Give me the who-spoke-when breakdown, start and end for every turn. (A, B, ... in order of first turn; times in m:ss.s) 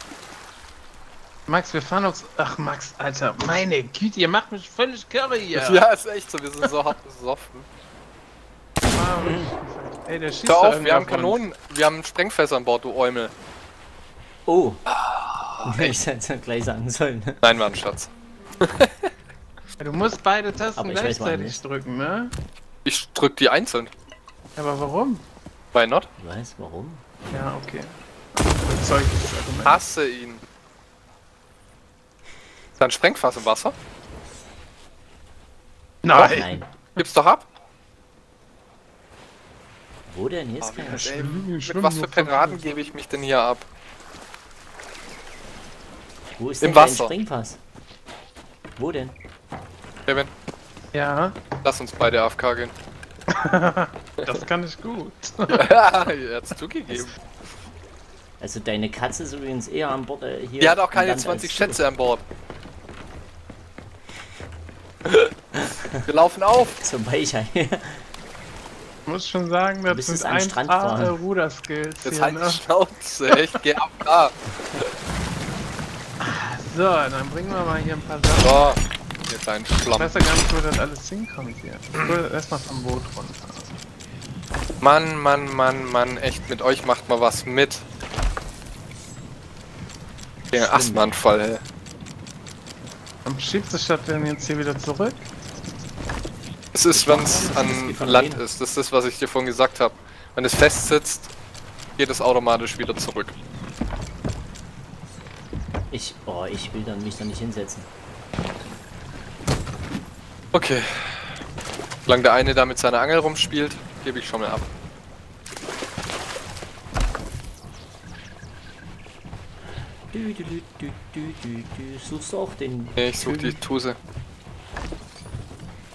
0:01.5-0:05.9 A
0:05.6-0:07.7 B
0:08.8-0:11.4 A
0:09.2-0:09.5 C
0:10.5-0:13.3 B
0:14.5-0:14.8 C
0:14.9-0:16.0 B
0:15.6-0:17.4 C
0:17.4-0:18.1 B
0:18.6-0:19.1 B
0:19.8-0:22.3 A
0:20.8-0:21.6 C
0:22.8-0:23.9 B
0:24.6-0:25.3 A
0:25.7-0:26.1 B
0:26.2-0:27.0 C
0:27.3-0:29.8 A
0:29.6-0:30.4 B
0:32.8-0:33.8 B
0:36.0-0:36.6 A
0:36.1-0:36.7 C
0:37.0-0:37.5 B
0:40.1-0:41.2 C
0:40.6-0:43.7 B
0:40.8-0:42.7 A
0:46.4-0:47.6 C
0:46.6-0:47.1 B
0:48.8-0:49.2 C
0:50.9-0:51.4 A
0:51.6-0:52.7 B
0:53.3-0:55.6 A
0:55.5-0:57.2 B
0:58.4-1:01.8 C
1:00.6-1:02.2 B
1:05.5-1:06.0 C
1:06.1-1:06.8 B
1:06.8-1:08.1 C
1:09.1-1:12.6 A
1:09.9-1:11.2 C
1:12.0-1:14.8 B
1:16.2-1:18.8 A
1:18.4-1:20.2 B
1:20.0-1:23.8 A
1:24.8-1:27.8 B
1:30.5-1:31.2 C
1:30.5-1:31.6 B
1:33.2-1:35.3 A
1:36.7-1:41.3 B
1:36.9-1:38.4 C
1:42.0-1:43.3 B
1:45.9-1:47.9 C
1:50.5-1:51.4 B
1:52.1-1:54.7 B
2:00.1-2:03.6 C
2:03.0-2:04.0 B